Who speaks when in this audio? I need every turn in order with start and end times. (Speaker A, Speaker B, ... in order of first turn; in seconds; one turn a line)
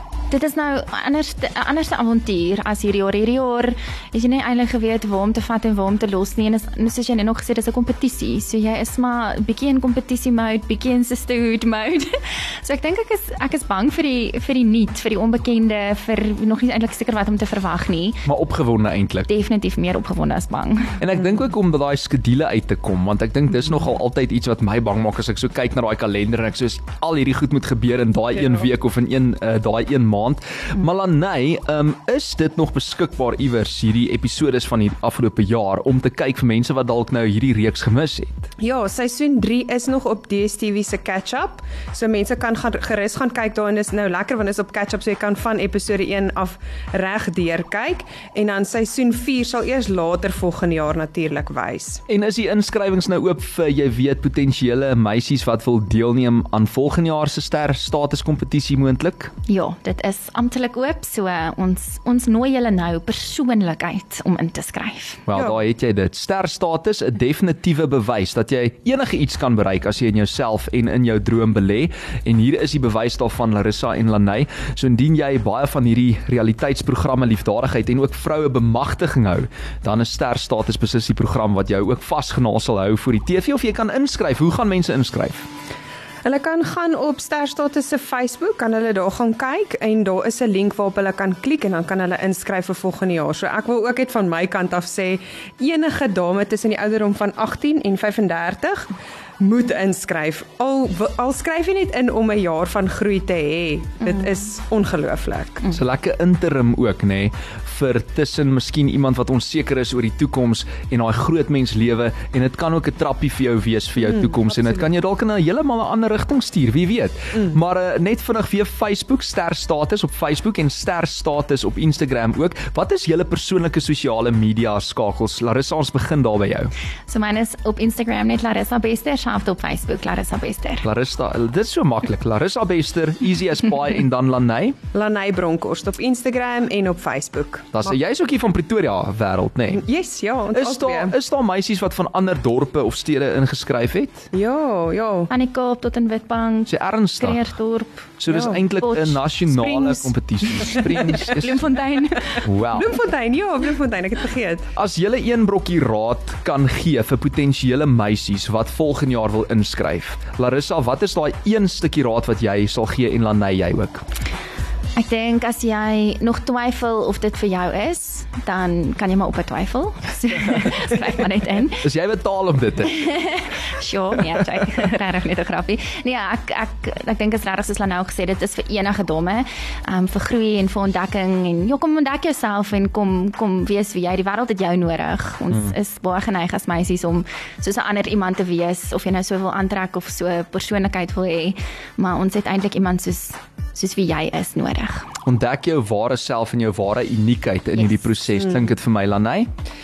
Speaker A: 0.3-18.3
Speaker B: 18.3-19.3
Speaker A: 19.3-21.0
Speaker B: 21.0-38.5
Speaker C: 38.6-52.0
Speaker B: 52.1-59.3
Speaker A: 59.5-65.2
Speaker B: 65.3-85.5
Speaker C: 86.2-98.9
Speaker C: 99.4-105.7
Speaker B: 105.7-126.7
Speaker C: 114.1-114.8
Speaker A: 127.1-130.8
Speaker B: 130.8-134.8
Speaker C: 134.9-138.0
Speaker B: 137.7-139.8
Speaker C: 139.7-141.2
Speaker B: 140.5-144.3
Speaker C: 144.3-145.3
Speaker A: 145.3-148.1
Speaker B: 146.7-147.4
Speaker B: 148.2-151.6
Speaker C: 148.3-148.6
Speaker A: 148.8-150.1
Speaker A: 150.6-152.5
Speaker B: 152.4-152.9
Speaker C: 152.7-154.6
Speaker B: 154.8-164.0
Speaker A: 165.0-171.8
Speaker B: 171.8-173.1
Speaker A: 172.9-195.1
Speaker B: 195.2-199.5
Speaker A: 197.8-198.2